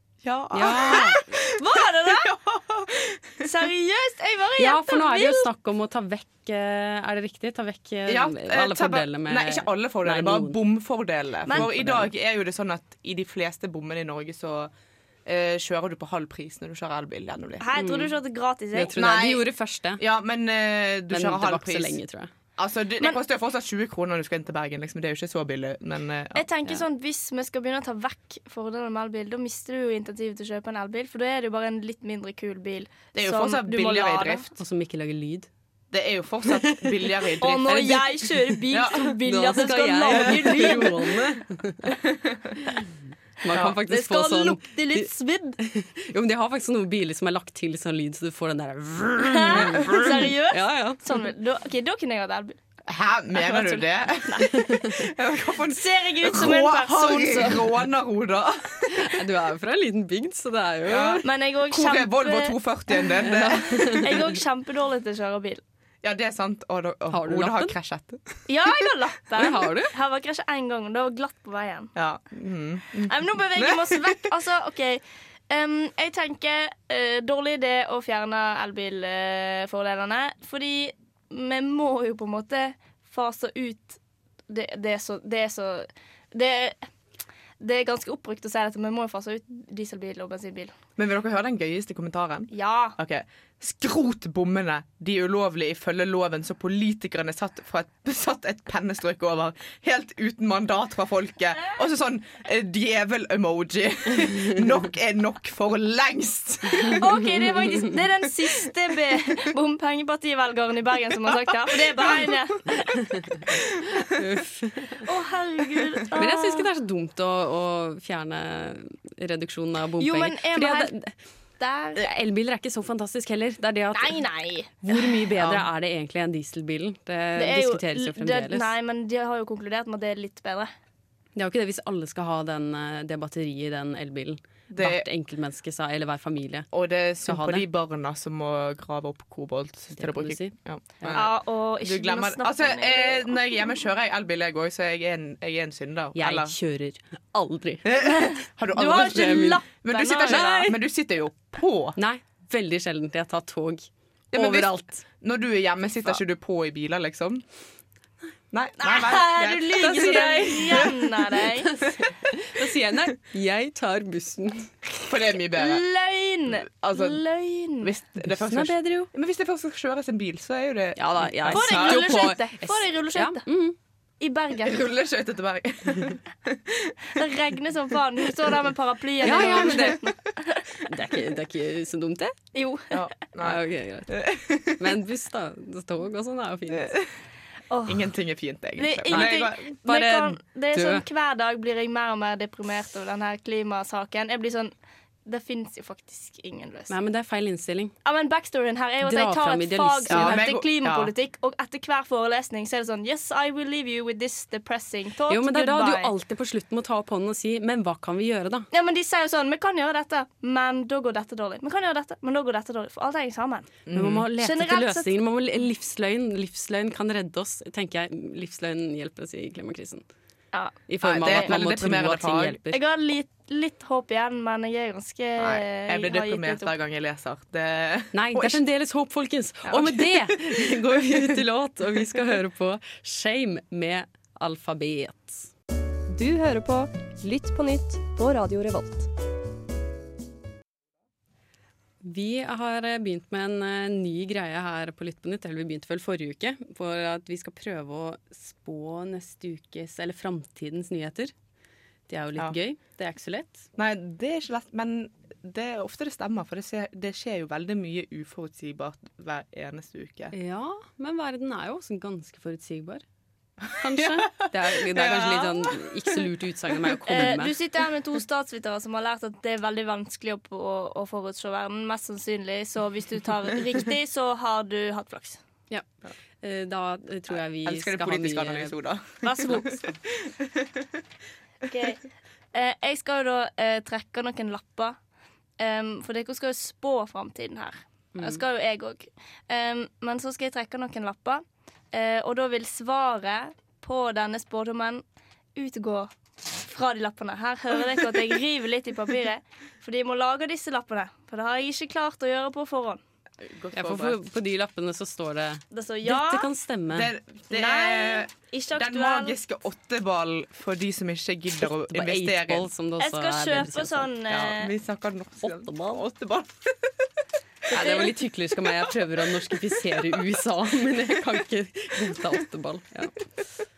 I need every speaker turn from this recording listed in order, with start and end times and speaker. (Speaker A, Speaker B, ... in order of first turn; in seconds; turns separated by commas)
Speaker A: 0.2-3.5, Speaker B: 0.5-1.2, Speaker C: 0.8-2.4, Speaker C: 3.4-5.5, Speaker B: 4.6-10.6, Speaker A: 8.1-14.7, Speaker C: 11.5-11.7, Speaker B: 11.5-12.1, Speaker A: 15.3-17.7, Speaker C: 17.6-19.1, Speaker B: 17.8-18.1, Speaker B: 18.7-20.0, Speaker A: 19.0-19.4, Speaker A: 20.0-22.0, Speaker B: 21.1-22.3, Speaker A: 22.6-26.5, Speaker C: 26.4-34.6, Speaker A: 33.1-34.5, Speaker B: 34.6-35.5, Speaker A: 35.9-40.9, Speaker B: 36.5-37.1, Speaker C: 37.4-41.2, Speaker B: 39.2-41.9, Speaker A: 41.9-42.5, Speaker B: 43.4-51.2, Speaker C: 43.6-45.6, Speaker C: 49.2-52.6, Speaker A: 52.9-59.1, Speaker C: 53.3-54.6, Speaker B: 54.5-54.9, Speaker C: 55.7-57.7, Speaker B: 58.9-61.3, Speaker A: 60.9-64.2, Speaker C: 61.2-62.6, Speaker B: 63.2-64.2, Speaker C: 64.0-65.6, Speaker A: 66.0-68.4, Speaker B: 67.1-67.8, Speaker C: 68.5-71.9, Speaker B: 69.4-69.9, Speaker A: 72.0-74.2, Speaker C: 73.1-86.8, Speaker C: 87.6-90.7, Speaker A: 91.0-107.0, Speaker C: 92.5-93.0, Speaker C: 106.9-112.8, Speaker A: 111.3-112.3, Speaker B: 113.0-113.4, Speaker A: 113.5-114.0, Speaker B: 114.2-115.0, Speaker C: 115.0-116.7, Speaker B: 116.2-121.1, Speaker C: 120.0-120.9, Speaker C: 121.6-122.1, Speaker B: 122.0-124.2, Speaker C: 124.0-125.2, Speaker B: 124.8-128.7, Speaker A: 125.4-125.7, Speaker C: 127.3-130.7, Speaker B: 131.4-136.7, Speaker A: 134.7-135.1, Speaker A: 136.7-146.6, Speaker B: 137.3-137.7, Speaker B: 139.9-141.2, Speaker C: 141.1-143.6, Speaker B: 146.2-147.9, Speaker A: 147.8-152.0, Speaker C: 148.0-150.7, Speaker B: 149.0-149.6, Speaker B: 150.3-150.8, Speaker B: 152.0-155.0, Speaker A: 154.3-157.4, Speaker A: 158.5-162.1, Speaker C: 158.8-161.8, Speaker B: 161.8-164.8, Speaker A: 165.1-165.8, Speaker C: 165.6-167.9, Speaker A: 166.5-167.2, Speaker A: 167.8-172.4, Speaker B: 168.3-169.1, Speaker B: 171.0-173.8, Speaker C: 171.5-173.5, Speaker C: 174.2-174.9, Speaker A: 174.6-177.2, Speaker C: 177.2-180.6, Speaker B: 179.2-180.0, Speaker A: 179.2-180.1, Speaker B: 180.8-182.4, Speaker C: 182.5-183.0, Speaker A: 182.9-185.0, Speaker B: 183.4-184.2, Speaker B: 184.8-186.9, Speaker A: 186.7-187.1, Speaker C: 187.7-188.1, Speaker A: 187.9-189.8, Speaker C: 188.8-194.7, Speaker B: 189.1-191.0, Speaker C: 195.3-196.9, Speaker B: 196.9-197.9, Speaker C: 198.1-206.1, Speaker B: 199.0-200.4, Speaker A: 200.1-201.1, Speaker B: 205.3-208.7, Speaker C: 208.7-213.8, Speaker A: 213.9-214.3, Speaker B: 213.9-220.0, Speaker C: 214.4-215.1, Speaker C: 220.5-221.5, Speaker B: 220.9-222.8, Speaker A: 221.0-222.6, Speaker C: 222.7-226.7, Speaker A: 225.4-228.6, Speaker B: 228.1-235.5, Speaker A: 229.7-231.4, Speaker D: 236.1-239.1, Speaker B: 242.0-251.3, Speaker B: 252.1-253.7, Speaker A: 253.8-260.3, Speaker B: 260.3-263.0, Speaker A: 263.6-267.3, Speaker B: 263.8-267.5, Speaker C: 267.1-275.4, Speaker B: 276.4-278.7, Speaker A: 277.3-280.9, Speaker C: 279.2-279.9, Speaker C: 281.6-285.0, Speaker C: 285.6-295.0, Speaker B: 288.2-288.4, Speaker C: 295.6-303.0, Speaker A: 303.4-304.2, Speaker B: 303.7-307.1, Speaker C: 305.7-306.5, Speaker A: 306.9-312.7, Speaker C: 307.5-309.4, Speaker B: 311.8-314.1, Speaker C: 313.0-314.7, Speaker A: 314.3-316.9, Speaker B: 315.4-316.0, Speaker A: 317.7-318.0, Speaker B: 317.7-323.3, Speaker C: 317.7-318.0, Speaker A: 319.9-320.2